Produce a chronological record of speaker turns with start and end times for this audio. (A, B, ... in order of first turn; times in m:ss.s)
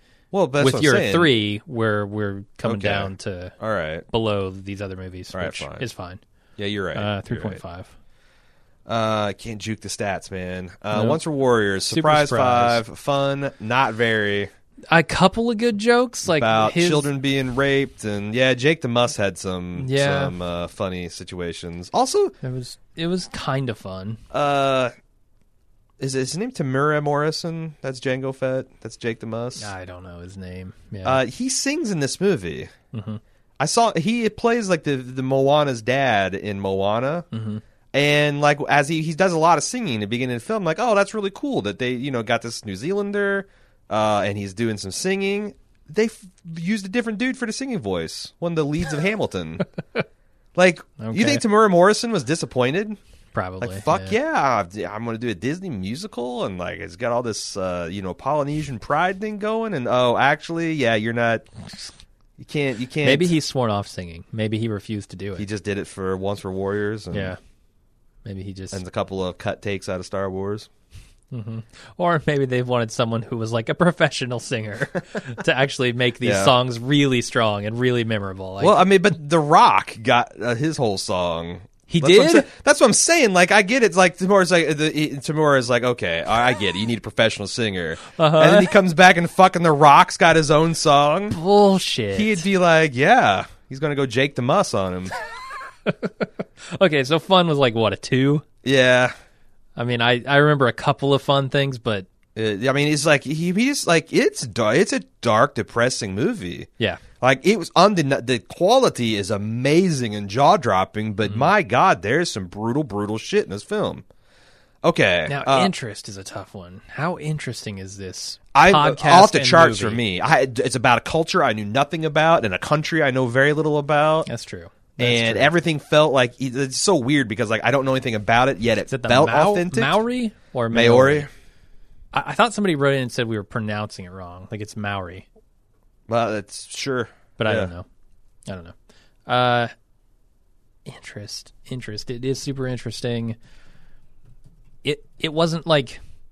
0:00.3-0:01.3 A
0:00.6-0:03.5 B
0:02.6-0:04.0 A
0:04.1-0:06.2 B
0:05.3-0:05.8 A
0:06.6-0:07.6 A
0:06.9-0:07.9 B
0:08.9-0:14.5 A
0:10.9-0:11.2 B
0:11.9-0:12.8 B
0:14.9-0:17.1 B
0:16.2-0:22.3 A
0:19.8-0:20.3 B
0:22.4-0:24.2 B
0:24.3-0:24.9 A
0:26.0-0:29.7 A
0:29.6-0:31.2 B
0:31.0-0:32.7 A
0:32.9-0:33.2 B
0:33.6-0:37.3 A
0:37.3-0:37.6 B
0:37.9-0:49.6 A
0:50.6-0:53.0 A
0:51.0-0:51.4 B
0:53.3-0:54.2 B
0:53.6-1:01.5 A
1:02.4-1:03.3 A
1:03.0-1:05.4 B
1:05.4-1:07.4 A
1:07.1-1:07.4 B
1:08.2-1:08.8 B
1:08.7-1:10.7 A
1:11.3-1:18.8 B
1:16.2-1:16.5 A
1:18.6-1:31.4 A
1:21.9-1:22.5 B
1:28.1-1:28.7 B
1:31.3-1:32.4 B
1:32.1-1:35.1 A
1:35.8-1:38.4 B
1:38.6-1:39.1 A
1:39.8-1:42.1 B
1:42.4-1:54.0 A
1:54.8-1:55.7 A
1:55.3-2:00.0 B
1:58.5-2:04.3 A
2:04.2-2:05.5 B
2:05.0-2:10.0 A
2:08.9-2:11.3 B
2:10.7-2:11.3 A
2:12.1-2:15.3 B
2:16.1-2:17.7 A
2:17.4-2:17.8 B
2:18.4-2:18.7 B
2:19.3-2:19.7 B
2:20.8-2:23.4 B
2:24.8-2:26.0 B